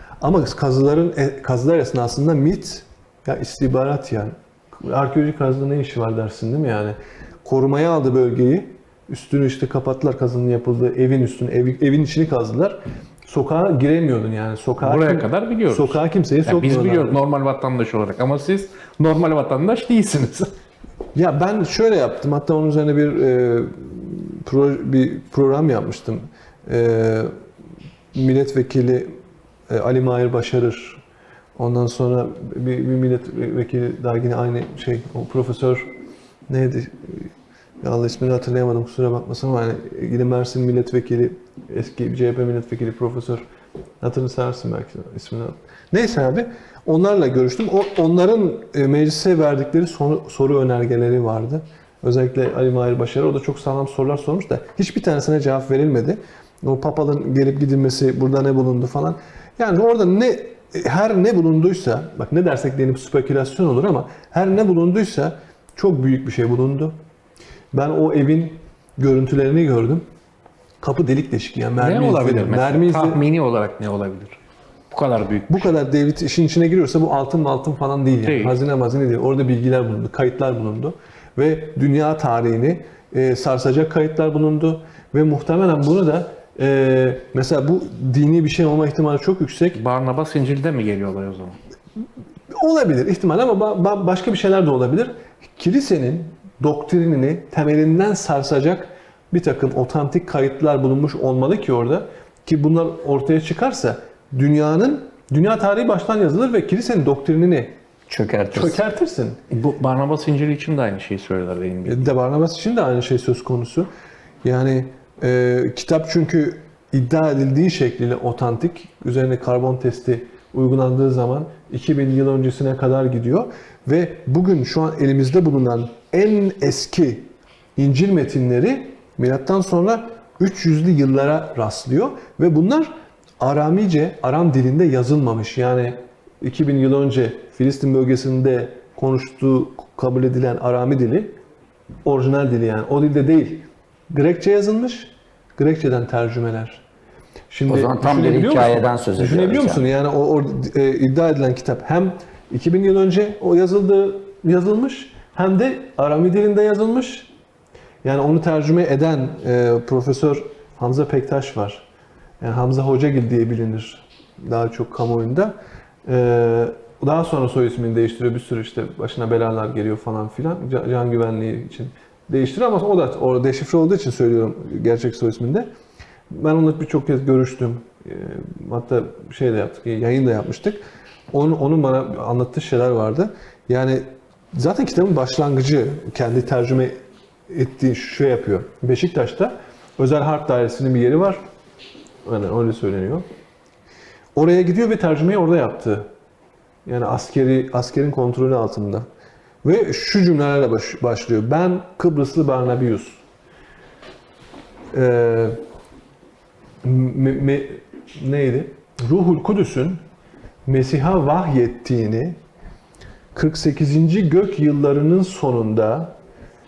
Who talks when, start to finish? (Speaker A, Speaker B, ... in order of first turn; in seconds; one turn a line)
Speaker A: 0.2-17.2
Speaker B: 14.8-20.5
Speaker A: 21.1-27.3
Speaker A: 28.1-29.1
Speaker A: 29.7-31.0
Speaker A: 31.6-35.9
Speaker A: 36.5-37.3
Speaker A: 37.8-43.4
Speaker A: 44.0-66.9
Speaker A: 67.7-70.0
Speaker A: 70.8-73.2
Speaker B: 71.8-74.4
Speaker B: 74.9-75.7
Speaker A: 75.5-89.8
Speaker B: 78.2-78.6
Speaker B: 89.7-91.5
Speaker A: 92.5-107.7
Speaker C: 108.1-108.8
Speaker A: 108.5-109.4
Speaker B: 109.5-112.1
Speaker A: 111.8-113.9
Speaker A: 114.4-141.3
Speaker A: 142.0-146.8
Speaker A: 147.5-157.3
Speaker C: 147.7-149.8
Speaker A: 158.0-161.9
Speaker A: 162.4-175.7
Speaker A: 176.3-180.8
Speaker A: 181.3-186.9
Speaker A: 187.5-191.4
Speaker A: 192.2-193.2
Speaker A: 194.3-196.1
Speaker A: 196.8-199.1
Speaker A: 199.6-203.2
Speaker A: 204.9-205.6
Speaker A: 206.8-210.0
Speaker A: 210.7-212.4
Speaker A: 213.3-216.1